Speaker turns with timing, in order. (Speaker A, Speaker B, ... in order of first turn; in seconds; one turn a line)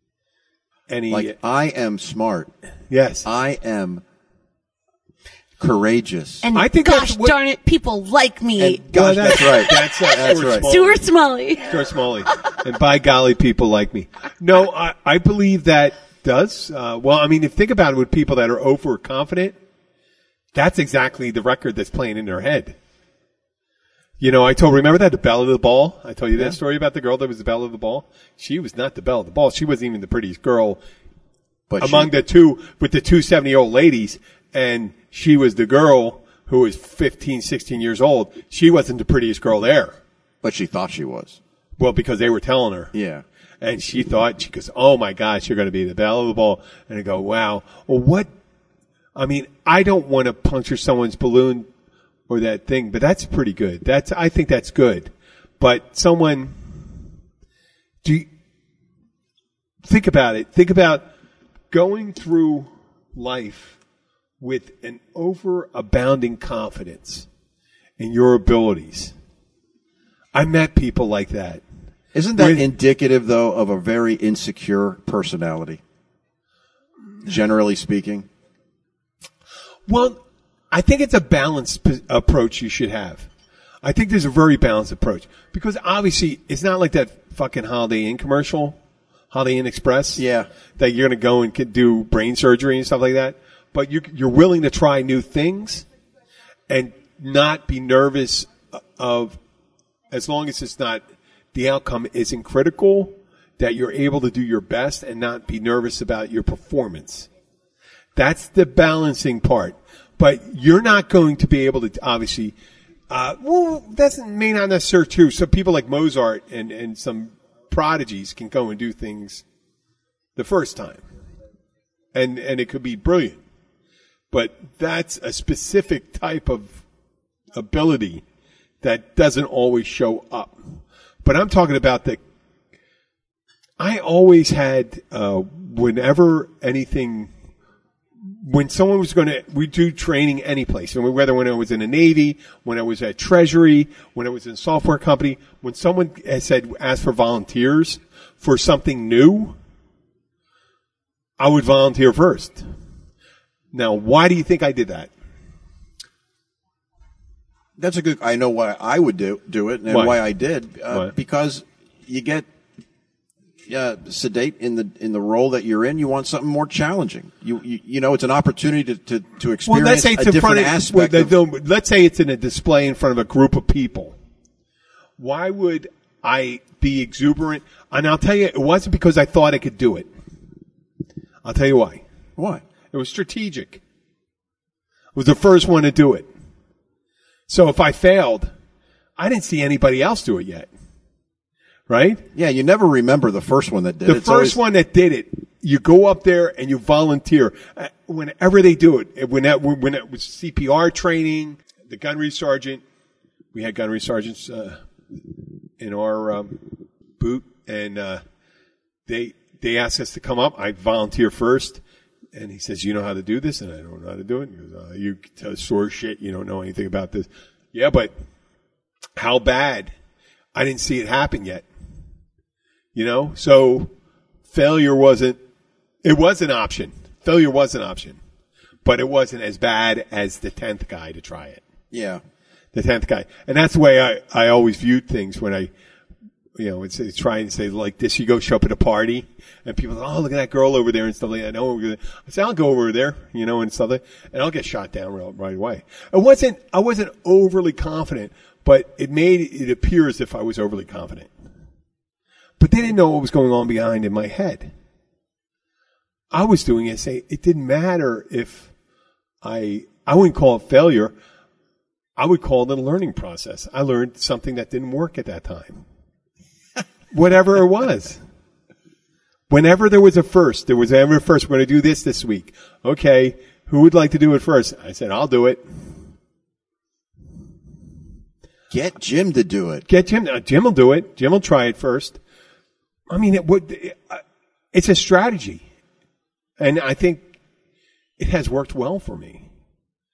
Speaker A: 0.9-1.3
Speaker B: 1.1-2.5
Speaker A: 2.9-3.3
Speaker B: 3.2-4.0
Speaker B: 5.6-6.5
Speaker C: 6.4-11.7
Speaker A: 6.5-7.3
Speaker B: 8.6-10.7
Speaker A: 8.9-11.0
Speaker A: 11.6-19.6
Speaker A: 20.5-22.8
Speaker A: 24.2-30.8
Speaker B: 31.7-32.1
Speaker A: 31.8-40.0
Speaker B: 40.4-41.4
Speaker A: 41.8-42.9
Speaker B: 42.9-43.2
Speaker A: 43.6-48.3
Speaker A: 49.1-51.7
Speaker A: 52.3-56.9
Speaker A: 58.0-58.3
Speaker A: 59.8-61.0
Speaker A: 61.7-63.8
Speaker A: 64.4-67.3
Speaker A: 68.0-69.1
Speaker A: 70.3-71.6
Speaker B: 72.1-75.8
Speaker A: 72.3-72.7
Speaker B: 77.2-78.3
Speaker A: 79.9-80.2
Speaker A: 80.7-83.3
Speaker A: 83.8-88.8
Speaker A: 89.3-90.2
Speaker B: 90.2-90.5
Speaker A: 90.8-95.8
Speaker A: 96.7-99.4
Speaker A: 100.1-107.3
Speaker A: 108.2-112.5
Speaker A: 113.1-119.4
Speaker A: 120.3-121.0
Speaker A: 122.1-123.4
Speaker A: 124.3-126.8
Speaker A: 127.5-128.2
Speaker A: 128.8-130.6
Speaker A: 131.2-132.2
Speaker A: 133.8-137.3
Speaker A: 138.2-149.6
Speaker A: 151.4-152.7
Speaker A: 153.7-155.1
Speaker B: 157.8-162.5
Speaker A: 159.9-160.2
Speaker B: 163.7-171.3
Speaker A: 169.6-174.2
Speaker A: 175.2-180.1
Speaker A: 181.4-182.0
Speaker B: 182.4-182.6
Speaker A: 182.9-183.8
Speaker A: 185.1-186.3
Speaker A: 187.5-188.5
Speaker A: 189.2-190.7
Speaker A: 191.9-192.2
Speaker B: 192.3-194.6
Speaker A: 194.0-202.8
Speaker A: 203.5-204.8
Speaker A: 205.8-206.7
Speaker A: 207.2-208.2
Speaker A: 209.1-211.8
Speaker A: 212.3-218.1
Speaker A: 219.2-219.9
Speaker A: 220.5-221.7
Speaker A: 222.9-223.9
Speaker A: 224.5-225.4
Speaker A: 226.0-228.2
Speaker A: 228.8-231.6
Speaker B: 231.9-232.2
Speaker A: 232.7-235.7
Speaker A: 236.6-251.3
Speaker A: 252.6-254.7
Speaker A: 256.3-258.7
Speaker A: 259.4-261.1
Speaker A: 262.2-265.8
Speaker A: 267.1-268.2
Speaker A: 269.5-275.6
Speaker B: 278.7-279.8
Speaker A: 279.9-282.2
Speaker A: 283.1-285.6
Speaker A: 286.6-287.3
Speaker A: 288.2-289.5